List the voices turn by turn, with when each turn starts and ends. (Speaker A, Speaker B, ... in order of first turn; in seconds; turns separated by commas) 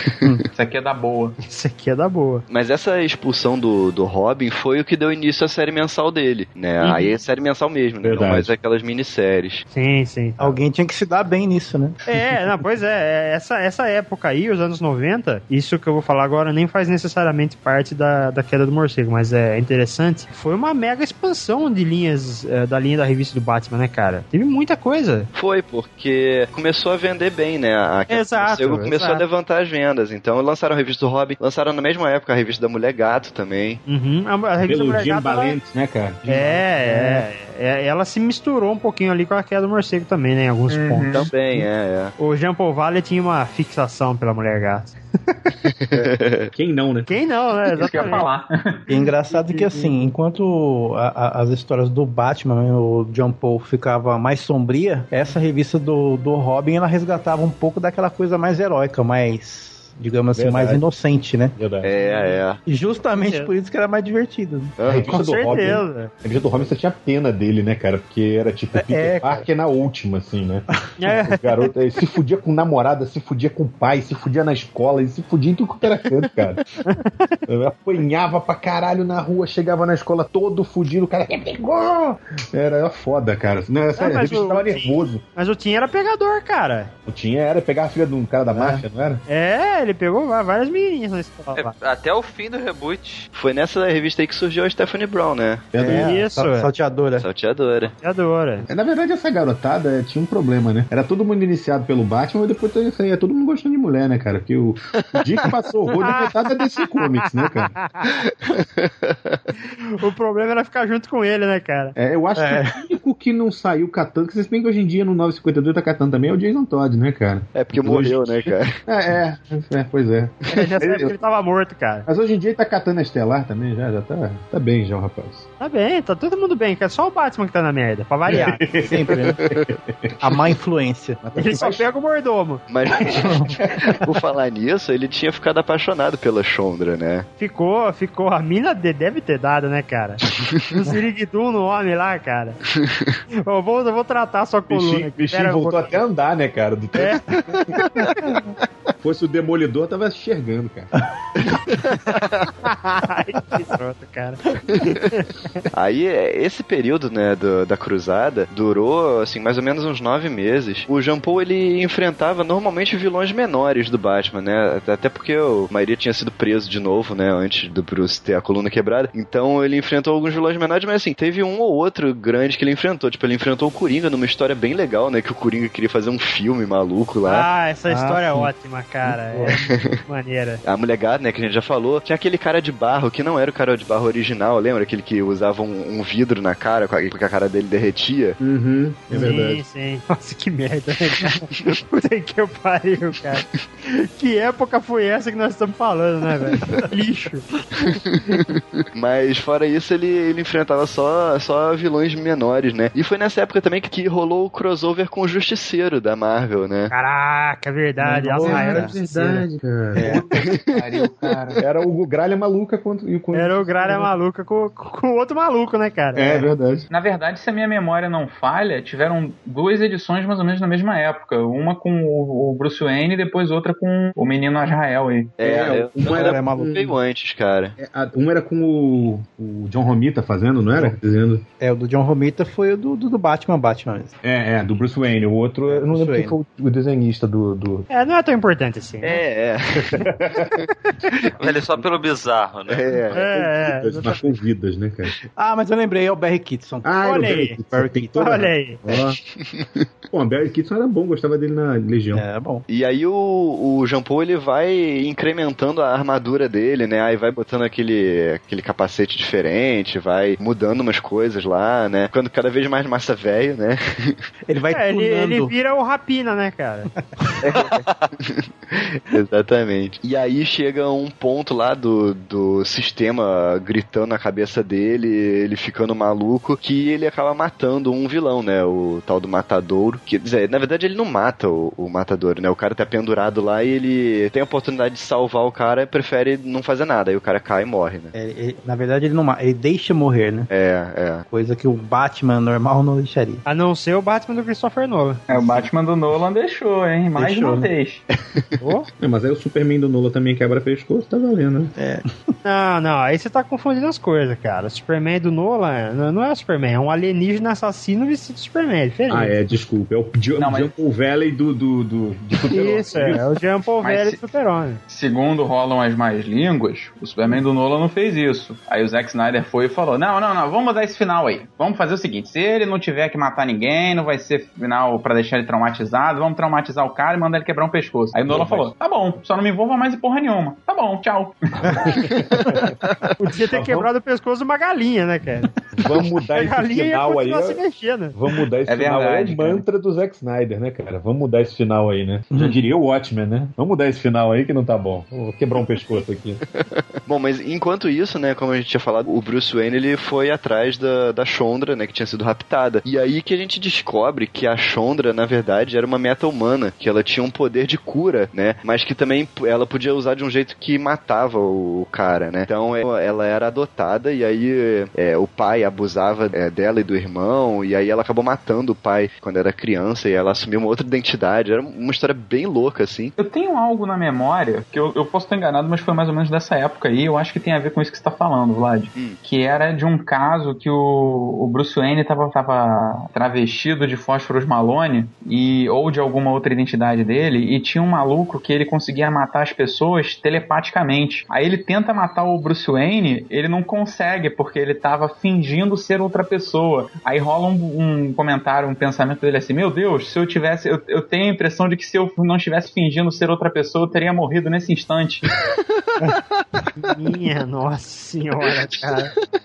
Speaker A: 0.5-1.4, Speaker B: 1.4-2.4, Speaker C: 2.5-9.6, Speaker B: 6.8-7.1, Speaker D: 8.0-8.5, Speaker B: 9.7-10.6, Speaker E: 10.4-12.2, Speaker B: 12.1-25.3, Speaker C: 25.3-33.8, Speaker B: 28.1-29.2, Speaker B: 33.9-35.6, Speaker D: 34.6-37.2, Speaker B: 36.3-41.6, Speaker A: 40.7-41.3, Speaker C: 41.1-42.1, Speaker B: 42.2-45.0, Speaker C: 45.9-46.5, Speaker D: 46.5-47.1, Speaker B: 47.1-48.3, Speaker A: 47.7-48.9, Speaker E: 48.9-61.6, Speaker B: 49.3-49.9, Speaker D: 60.3-60.8, Speaker D: 61.5-61.9, Speaker C: 61.8-62.6, Speaker B: 62.0-62.4, Speaker E: 62.6-64.7, Speaker B: 63.2-63.5, Speaker C: 64.8-65.3, Speaker D: 64.8-70.7, Speaker B: 65.1-66.1, Speaker E: 68.7-69.5, Speaker B: 71.0-71.6, Speaker D: 71.2-76.6, Speaker B: 76.8-77.4, Speaker D: 77.5-85.2, Speaker B: 84.0-86.9, Speaker D: 87.0-89.2, Speaker E: 88.5-88.8, Speaker B: 89.3-91.7, Speaker F: 91.5-93.3, Speaker C: 93.3-95.8, Speaker D: 95.7-96.1, Speaker E: 95.8-97.2, Speaker B: 95.9-96.7, Speaker C: 97.2-97.9, Speaker B: 98.0-98.7, Speaker D: 98.7-107.7, Speaker C: 105.0-105.4, Speaker B: 106.0-106.3, Speaker B: 107.0-108.1, Speaker C: 108.1-109.4, Speaker B: 109.6-111.9, Speaker D: 111.9-121.1, Speaker E: 112.3-112.8, Speaker C: 117.5-118.8, Speaker B: 120.5-122.1, Speaker D: 122.1-125.5, Speaker B: 125.6-128.6, Speaker E: 128.3-129.4, Speaker D: 128.3-130.3, Speaker E: 130.2-131.8, Speaker D: 131.2-131.8, Speaker B: 131.4-132.6, Speaker C: 132.7-137.3, Speaker D: 133.0-133.7, Speaker E: 133.2-133.5, Speaker B: 137.4-142.6, Speaker B: 143.4-146.0, Speaker D: 144.7-147.6, Speaker B: 146.9-147.2, Speaker D: 149.0-150.9, Speaker C: 151.4-152.5, Speaker B: 152.6-155.6, Speaker C: 154.7-155.1, Speaker C: 155.7-177.5, Speaker B: 177.2-180.6, Speaker E: 177.9-178.5, Speaker E: 179.0-179.6, Speaker C: 180.6-188.4, Speaker D: 188.4-189.6, Speaker B: 189.1-198.0, Speaker C: 197.9-206.9, Speaker B: 206.9-209.4, Speaker E: 208.0-209.0, Speaker D: 208.4-210.2, Speaker E: 209.9-210.2, Speaker A: 210.0-211.6, Speaker C: 210.5-210.8, Speaker D: 211.6-214.1, Speaker B: 213.3-216.5, Speaker D: 216.1-216.9, Speaker A: 216.9-225.4, Speaker C: 225.4-227.8, Speaker E: 225.4-226.9, Speaker D: 225.5-226.9, Speaker D: 227.8-231.4, Speaker E: 231.6-234.1, Speaker D: 234.2-237.8, Speaker E: 235.7-236.3, Speaker B: 237.9-239.2, Speaker C: 239.0-240.1, Speaker D: 239.9-240.6, Speaker F: 241.4-242.9, Speaker C: 242.7-243.2, Speaker D: 243.1-245.1, Speaker B: 243.1-244.4, Speaker E: 245.4-248.4, Speaker D: 246.8-249.2, Speaker B: 247.0-247.6, Speaker B: 248.2-248.8, Speaker C: 248.9-249.8, Speaker D: 250.1-252.2, Speaker E: 252.1-252.6, Speaker C: 252.7-264.2, Speaker E: 264.4-265.5, Speaker B: 264.7-266.9, Speaker E: 267.0-267.4, Speaker C: 267.4-288.1, Speaker F: 267.6-268.0, Speaker E: 288.1-290.5, Speaker C: 290.5-291.2, Speaker E: 291.3-293.4, Speaker B: 293.4-295.2, Speaker A: 295.3-298.0, Speaker E: 297.1-297.7, Speaker B: 298.6-298.9, Speaker D: 299.0-301.7, Speaker E: 301.8-302.1, Speaker B: 302.4-309.3, Speaker D: 309.1-313.2, Speaker A: 310.4-310.7, Speaker B: 312.5-314.8, Speaker A: 313.8-314.2, Speaker A: 314.9-331.7, Speaker D: 328.3-328.7, Speaker D: 331.7-332.7, Speaker B: 333.2-335.5, Speaker D: 333.4-333.9, Speaker D: 335.7-337.6, Speaker B: 336.3-338.1, Speaker D: 338.1-346.4, Speaker A: 338.7-339.6, Speaker C: 347.1-373.1, Speaker A: 373.2-405.2, Speaker C: 378.9-379.2, Speaker B: 406.8-409.1